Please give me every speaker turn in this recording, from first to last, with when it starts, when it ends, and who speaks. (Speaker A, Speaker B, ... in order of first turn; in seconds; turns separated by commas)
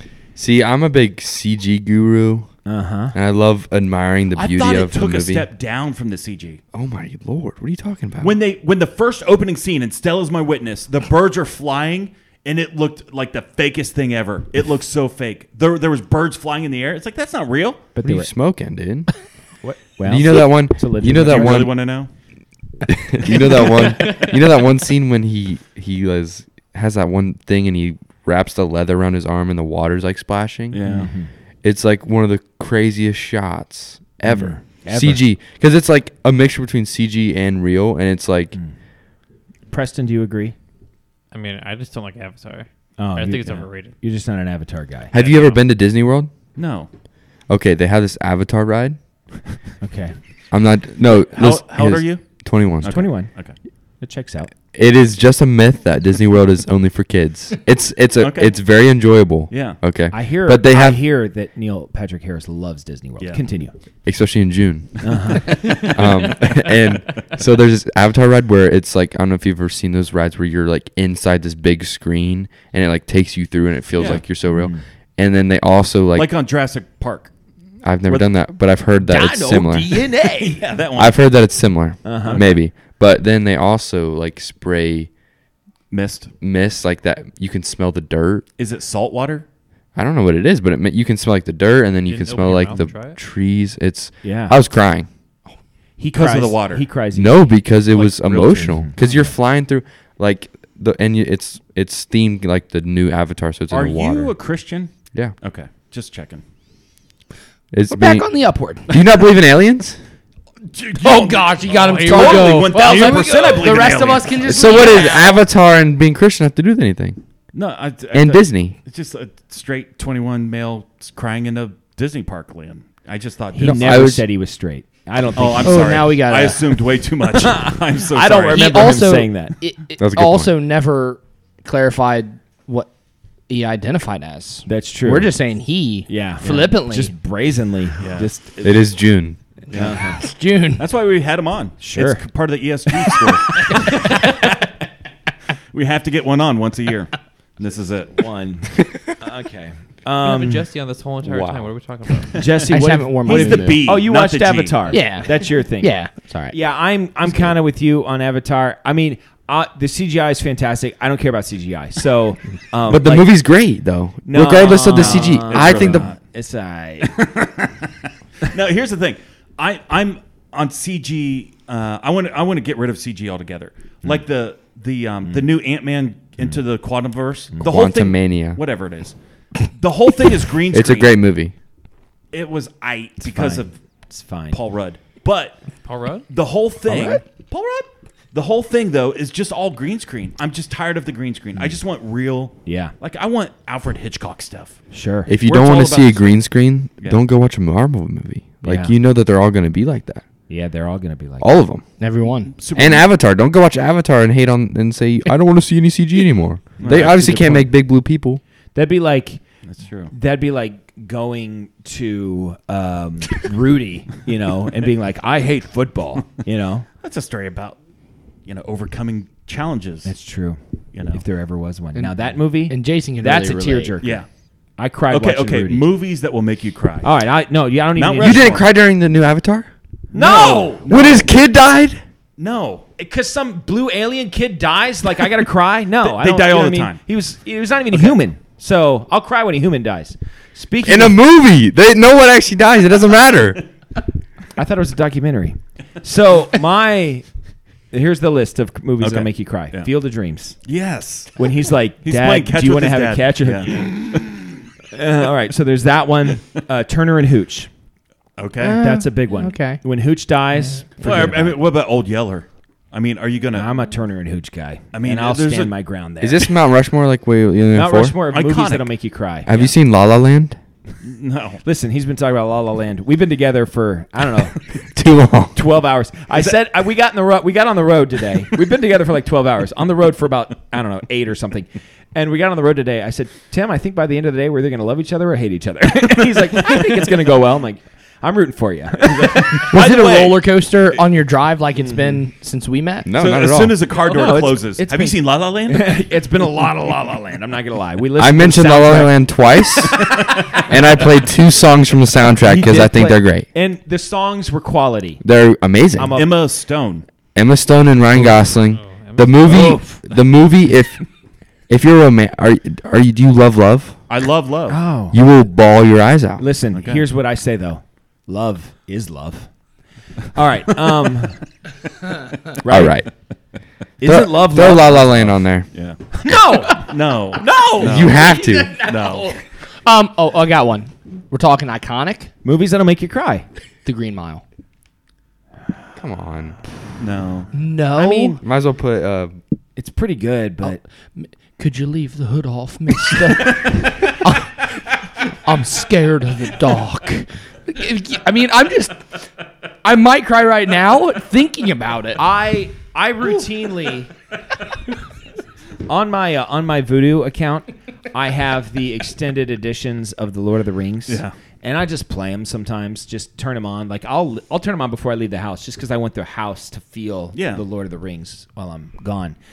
Speaker A: 0.3-2.5, Speaker B: 2.6-3.1, Speaker A: 3.1-5.5, Speaker C: 4.3-6.6, Speaker A: 6.7-8.4, Speaker C: 8.2-17.9, Speaker B: 18.0-18.3, Speaker A: 18.0-19.1, Speaker B: 19.6-21.7, Speaker A: 20.0-21.8, Speaker C: 21.1-22.1, Speaker A: 22.9-30.8, Speaker C: 23.3-24.4, Speaker C: 30.7-31.1, Speaker B: 30.8-31.3, Speaker A: 31.6-38.6, Speaker B: 34.2-35.2, Speaker B: 39.7-40.5, Speaker D: 41.3-43.9, Speaker B: 43.0-45.1, Speaker A: 45.1-46.3, Speaker D: 45.1-45.6, Speaker C: 46.5-46.9, Speaker A: 47.5-49.0, Speaker B: 49.8-50.1, Speaker A: 50.5-53.2, Speaker C: 51.3-53.5, Speaker B: 52.8-53.3, Speaker B: 54.0-54.5, Speaker A: 54.7-61.0, Speaker C: 58.2-58.6, Speaker C: 59.5-59.8, Speaker B: 60.1-63.7, Speaker A: 64.0-76.3, Speaker B: 65.0-65.8, Speaker C: 65.0-66.6, Speaker C: 73.9-74.3, Speaker B: 74.4-74.8, Speaker C: 76.1-77.3, Speaker A: 77.8-80.0, Speaker C: 78.0-78.3, Speaker B: 79.0-80.8, Speaker C: 80.3-81.4, Speaker A: 81.0-85.1, Speaker B: 82.0-82.5, Speaker C: 82.1-82.6, Speaker C: 85.9-86.3, Speaker A: 86.4-88.5, Speaker C: 88.6-89.4, Speaker A: 89.9-95.1, Speaker D: 92.0-93.2, Speaker B: 94.2-94.6, Speaker B: 96.0-99.3, Speaker C: 96.1-97.0, Speaker A: 97.1-104.3, Speaker C: 97.9-98.9, Speaker C: 103.7-106.4, Speaker A: 107.7-108.3, Speaker E: 107.9-108.9, Speaker A: 108.9-110.0, Speaker C: 110.7-115.2, Speaker E: 111.0-115.4, Speaker B: 112.2-112.5, Speaker A: 114.4-117.2, Speaker C: 117.5-124.1, Speaker A: 118.1-118.8, Speaker B: 123.5-126.2, Speaker A: 123.6-124.2, Speaker C: 125.3-129.0, Speaker E: 125.6-126.8, Speaker B: 127.2-129.5, Speaker E: 128.5-132.9, Speaker A: 130.0-130.5, Speaker E: 133.5-137.1, Speaker B: 134.7-135.3, Speaker B: 136.1-138.9, Speaker C: 138.0-138.3, Speaker A: 138.6-139.4, Speaker B: 139.7-140.2, Speaker C: 139.7-140.2, Speaker E: 140.2-140.8, Speaker C: 140.8-144.3, Speaker B: 141.8-142.2, Speaker C: 145.7-148.3, Speaker B: 148.1-150.7, Speaker D: 150.2-152.5, Speaker A: 151.2-151.7, Speaker B: 152.3-163.3, Speaker E: 152.7-153.8, Speaker C: 153.2-154.9, Speaker E: 154.9-156.6, Speaker A: 162.9-166.1, Speaker B: 164.2-167.2, Speaker C: 164.6-166.2, Speaker C: 167.0-181.2, Speaker A: 177.6-178.6, Speaker A: 180.7-181.5, Speaker C: 182.3-183.8, Speaker B: 183.2-184.6, Speaker C: 184.5-185.6, Speaker D: 185.8-186.3, Speaker C: 186.3-194.8, Speaker B: 186.8-187.2, Speaker B: 192.7-192.9, Speaker B: 194.9-195.3, Speaker A: 195.3-200.2, Speaker C: 195.4-197.2, Speaker B: 198.6-198.9, Speaker B: 200.5-201.5, Speaker A: 201.4-201.8, Speaker E: 202.0-202.5, Speaker C: 202.5-203.1, Speaker A: 202.7-208.4, Speaker C: 206.8-207.5, Speaker B: 206.8-207.7, Speaker B: 208.7-209.4, Speaker C: 209.6-210.1, Speaker B: 210.1-216.9, Speaker C: 217.0-217.8, Speaker C: 218.4-220.1, Speaker B: 220.0-224.2, Speaker C: 220.9-221.2, Speaker E: 221.9-224.0, Speaker C: 224.0-224.3, Speaker B: 224.8-225.9, Speaker C: 225.1-227.1, Speaker B: 227.0-228.6, Speaker C: 227.9-228.8, Speaker A: 228.2-229.7, Speaker B: 230.1-230.9, Speaker C: 230.1-231.3, Speaker A: 230.8-232.0, Speaker C: 232.4-232.9, Speaker B: 233.0-241.2, Speaker C: 236.0-237.0, Speaker A: 240.8-243.6, Speaker B: 244.6-247.3, Speaker B: 247.9-250.6, Speaker C: 249.0-249.9, Speaker C: 250.7-251.3, Speaker B: 251.3-254.2, Speaker C: 252.0-254.4, Speaker B: 254.9-257.7, Speaker C: 258.4-258.8, Speaker E: 258.6-259.8, Speaker B: 258.8-261.6, Speaker C: 261.0-263.7, Speaker B: 263.5-266.5, Speaker C: 264.9-265.7, Speaker A: 266.2-268.2, Speaker B: 267.7-269.7, Speaker C: 268.3-268.9, Speaker A: 269.4-270.6, Speaker C: 271.0-271.6, Speaker B: 271.6-274.6, Speaker A: 274.9-275.6, Speaker B: 275.5-289.7, Speaker C: 289.2-291.0, Speaker E: 289.7-293.1, Speaker B: 291.8-292.2, Speaker A: 293.1-293.9, Speaker C: 293.1-295.9, Speaker B: 293.9-299.2, Speaker A: 298.2-303.5, Speaker C: 300.0-300.5, Speaker B: 302.4-305.2, Speaker A: 305.2-306.2, Speaker B: 305.9-306.4, Speaker C: 306.1-307.1, Speaker A: 307.3-311.0, Speaker B: 308.1-308.4, Speaker D: 308.5-309.6, Speaker B: 309.4-310.0, Speaker A: 311.7-314.0, Speaker C: 314.1-314.8, Speaker B: 314.7-315.2, Speaker A: 315.1-316.4, Speaker B: 316.4-319.5, Speaker C: 316.7-317.0, Speaker B: 320.3-321.4, Speaker B: 322.6-323.0, Speaker A: 322.7-323.1, Speaker B: 324.0-325.4, Speaker A: 324.0-325.7, Speaker C: 325.7-326.0, Speaker B: 326.1-328.1, Speaker C: 326.7-328.2, Speaker A: 327.8-328.8, Speaker E: 328.1-332.3, Speaker C: 328.7-329.3, Speaker B: 332.4-333.5, Speaker E: 333.8-334.4, Speaker A: 335.9-336.6, Speaker C: 337.0-337.5, Speaker E: 337.5-338.4, Speaker B: 338.0-338.4, Speaker A: 338.4-339.4, Speaker B: 339.8-340.8, Speaker E: 340.6-349.1, Speaker E: 349.8-352.2, Speaker B: 352.1-354.1, Speaker B: 355.9-369.4, Speaker C: 361.1-361.3, Speaker C: 367.3-367.6